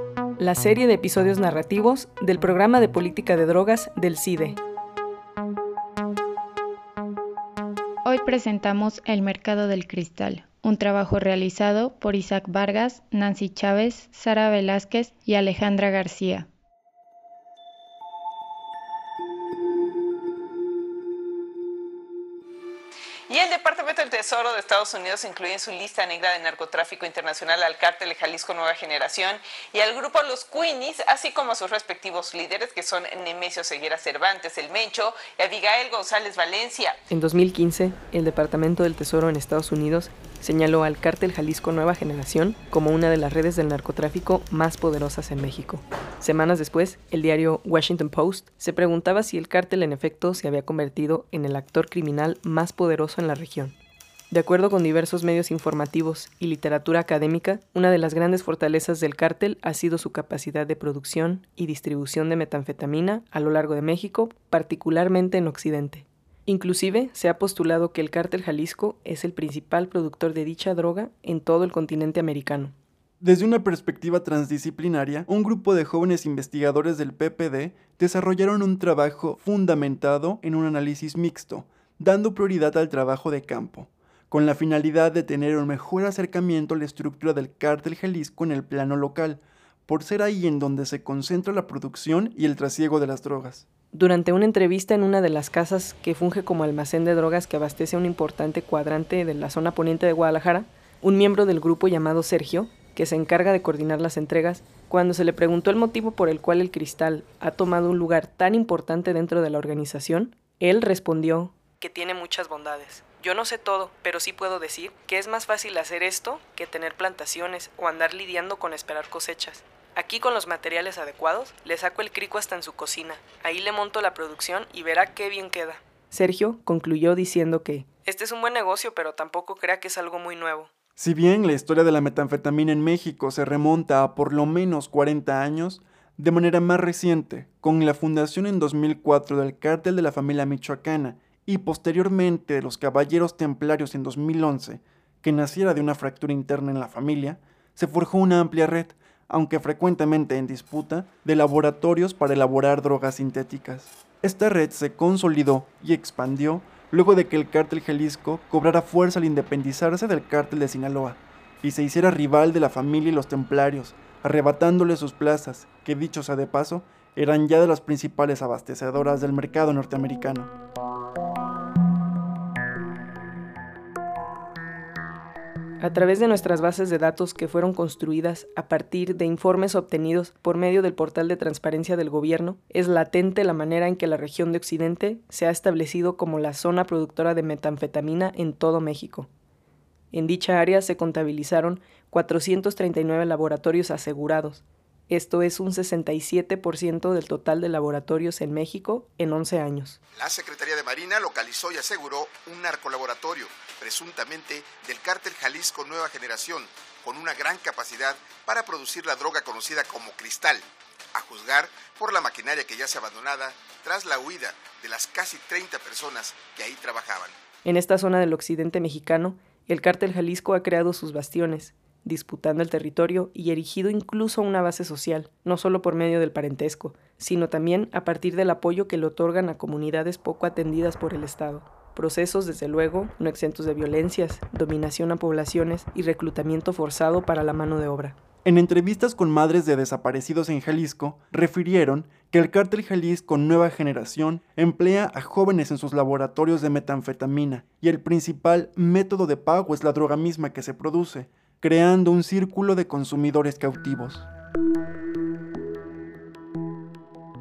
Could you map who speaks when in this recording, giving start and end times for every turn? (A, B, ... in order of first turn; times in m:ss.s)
0:00.4-0:04.6 A
0:08.0-0:16.5 B
0:23.3-0:37.0 C
0:37.1-0:53.8 A
0:54.3-1:12.7 A
1:13.2-1:33.7 D
1:33.9-2:10.7 A
2:11.0-2:50.5 D
2:55.8-3:09.3 A
3:10.1-3:20.0 A
3:20.1-3:37.3 E
3:37.6-3:58.2 A
3:58.4-4:14.3 D